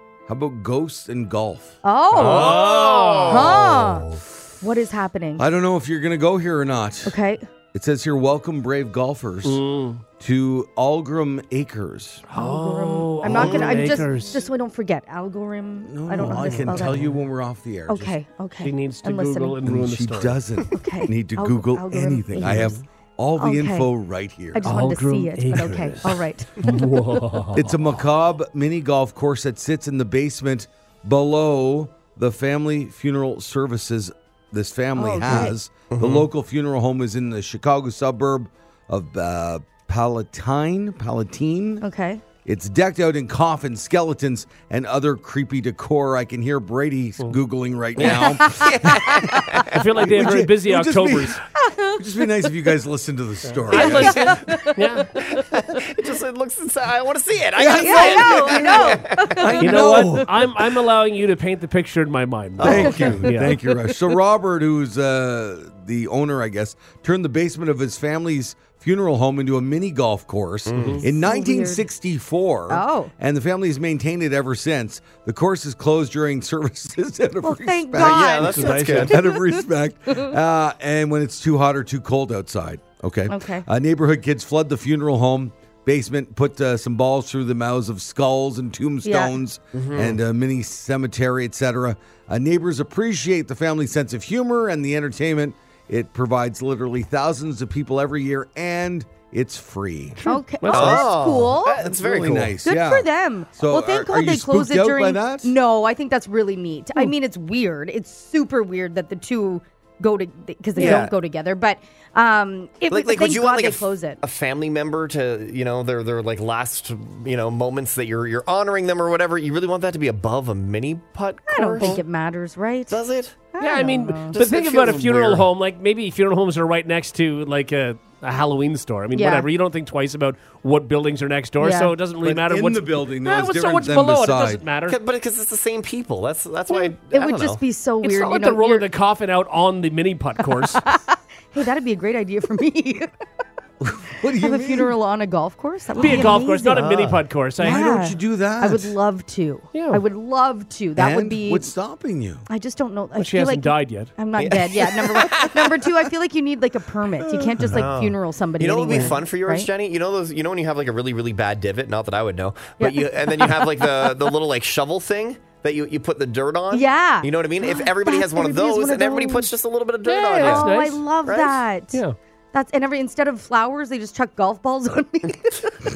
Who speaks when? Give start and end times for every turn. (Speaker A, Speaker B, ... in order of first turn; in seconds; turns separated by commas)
Speaker A: 0.3-1.8, Speaker B: 1.8-2.6, Speaker C: 2.1-4.2, Speaker D: 2.1-3.4, Speaker A: 2.4-3.2, Speaker B: 3.2-4.1, Speaker B: 4.6-5.5, Speaker A: 5.4-7.2, Speaker B: 7.0-7.5, Speaker A: 7.7-9.6, Speaker D: 9.4-10.0, Speaker A: 10.2-12.2, Speaker D: 12.3-14.4, Speaker B: 12.3-17.1, Speaker C: 13.3-14.0, Speaker A: 15.8-18.1, Speaker D: 16.2-17.1, Speaker B: 17.9-19.6, Speaker D: 18.6-20.4, Speaker A: 19.6-24.8, Speaker B: 20.7-22.8, Speaker D: 22.4-22.8, Speaker B: 23.4-23.9, Speaker B: 24.5-26.8, Speaker D: 24.6-27.7, Speaker A: 27.5-41.8, Speaker B: 35.0-35.5, Speaker C: 35.3-36.3, Speaker B: 41.8-42.2, Speaker A: 42.4-49.3, Speaker C: 48.0-49.8, Speaker B: 48.2-48.7, Speaker D: 49.7-51.4, Speaker A: 49.9-51.4, Speaker B: 51.5-52.2, Speaker A: 51.9-54.4, Speaker D: 53.4-55.1, Speaker B: 53.7-55.2, Speaker C: 55.2-59.5, Speaker A: 57.5-60.6, Speaker B: 57.8-60.3, Speaker D: 59.6-63.6, Speaker C: 62.6-63.1, Speaker A: 62.6-100.2, Speaker B: 62.7-63.9, Speaker C: 70.7-71.0, Speaker D: 70.7-71.0, Speaker B: 71.1-71.9, Speaker B: 72.7-73.1, Speaker B: 77.4-80.3, Speaker C: 78.0-79.2, Speaker D: 78.4-79.2, Speaker B: 83.3-83.7, Speaker B: 89.0-89.3, Speaker C: 89.7-90.2, Speaker D: 100.2-101.1, Speaker B: 100.2-101.8, Speaker C: 100.7-102.5, Speaker A: 101.8-105.5, Speaker B: 102.6-114.2, Speaker C: 110.8-111.1, Speaker C: 112.9-122.0, Speaker B: 121.5-123.0, Speaker C: 122.9-123.4, Speaker B: 123.5-124.3, Speaker D: 123.6-135.0, Speaker C: 124.3-125.5, Speaker B: 129.1-129.5, Speaker B: 131.6-131.9, Speaker A: 132.2-134.6, Speaker C: 134.9-137.6, Speaker B: 136.7-138.8, Speaker D: 138.0-140.8, Speaker B: 140.7-143.1, Speaker A: 143.8-144.9, Speaker B: 144.3-146.9, Speaker D: 146.0-147.8, Speaker A: 146.0-146.3, Speaker C: 146.8-147.2, Speaker A: 147.6-148.9, Speaker B: 147.6-151.7, Speaker D: 149.7-150.0, Speaker A: 150.9-152.4, Speaker B: 152.5-159.7, Speaker D: 153.2-154.1, Speaker C: 154.4-155.9, Speaker A: 157.2-157.8, Speaker C: 157.6-170.7, Speaker B: 162.8-163.6, Speaker B: 166.7-169.5, Speaker D: 170.0-171.0, Speaker B: 170.4-172.0, Speaker C: 171.2-171.6, Speaker B: 172.5-175.7